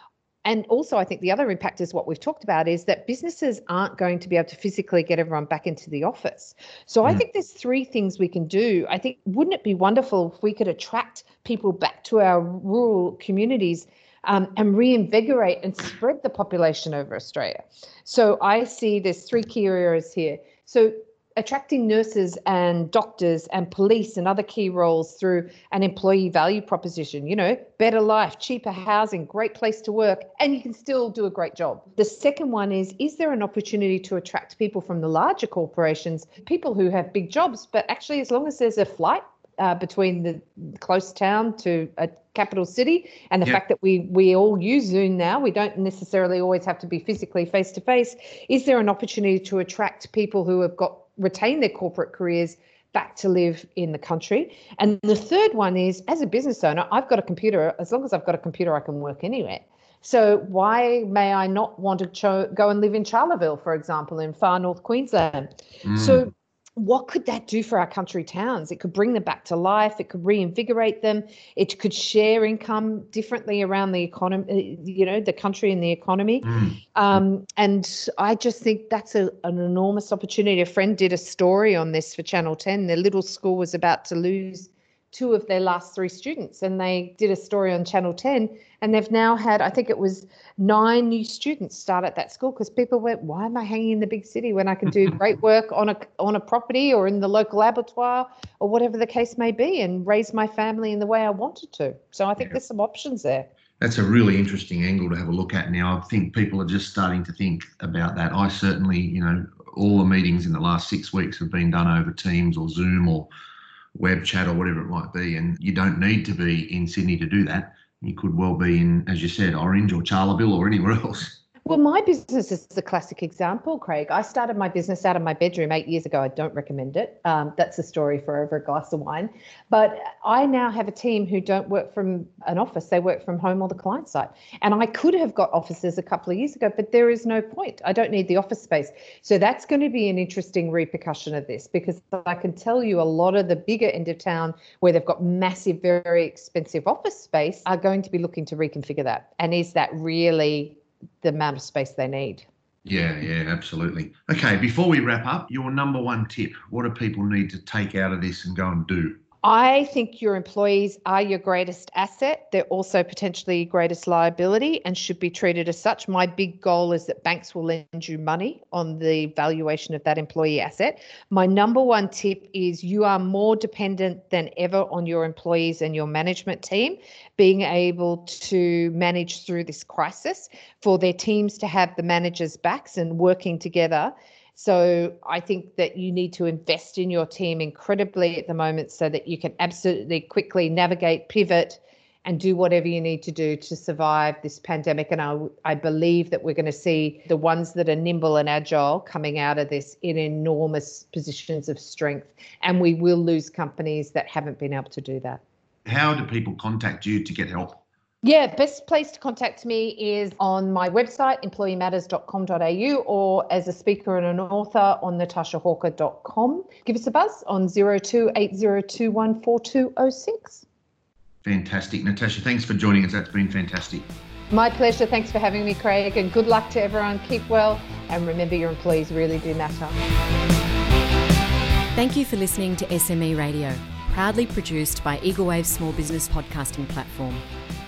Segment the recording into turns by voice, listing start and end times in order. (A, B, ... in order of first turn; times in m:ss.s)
0:00.4-1:43.5 A
1:05.8-1:06.3 B
1:16.4-1:16.8 B
1:43.8-1:53.3 B
1:54.0-2:01.4 B
2:01.7-2:32.5 A
2:32.8-2:39.2 B
2:39.4-3:25.4 A
3:25.8-3:27.8 B
3:28.2-3:40.6 A
3:41.4-3:44.1 B
3:44.5-3:50.0 A
3:52.0-3:57.4 C